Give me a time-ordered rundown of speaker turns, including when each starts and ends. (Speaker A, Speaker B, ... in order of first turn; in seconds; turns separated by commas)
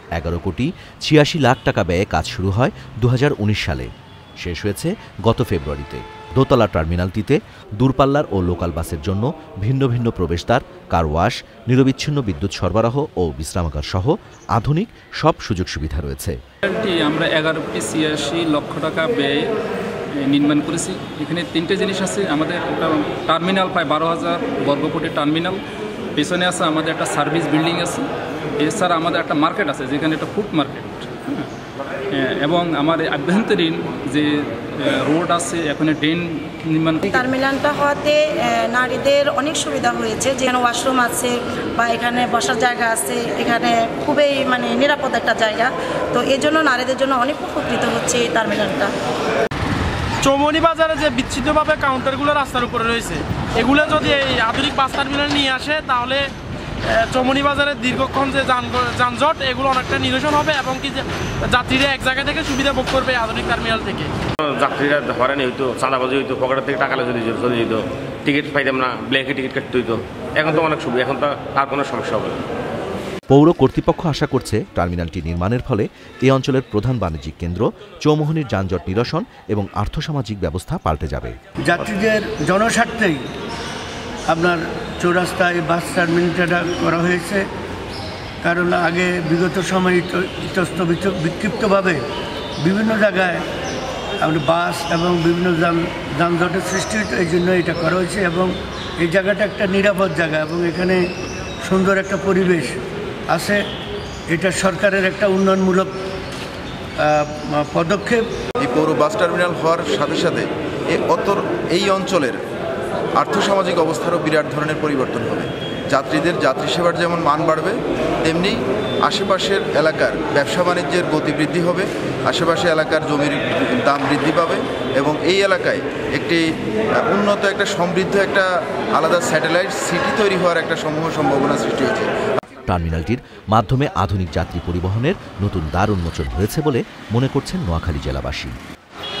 Speaker A: 0.2-3.9, Speaker A: 4.4-16.4, Speaker B: 16.6-19.5, Speaker B: 20.2-25.6, Speaker B: 26.1-28.1, Speaker B: 28.6-31.5, Speaker B: 32.1-37.3, Speaker C: 37.1-48.9, Speaker D: 50.2-56.3, Speaker D: 56.9-64.1, Speaker E: 64.4-72.4, Speaker A: 73.3-81.3, Speaker F: 81.6-83.2, Speaker F: 84.3-87.4, Speaker F: 88.4-92.0, Speaker F: 92.6-93.4, Speaker F: 94.2-101.0, Speaker F: 101.6-102.8, Speaker F: 103.3-103.6, Speaker F: 104.3-105.9, Speaker F: 107.0-108.3, Speaker G: 108.6-112.4, Speaker G: 113.2-126.4, Speaker G: 127.0-132.1, Speaker A: 132.7-138.6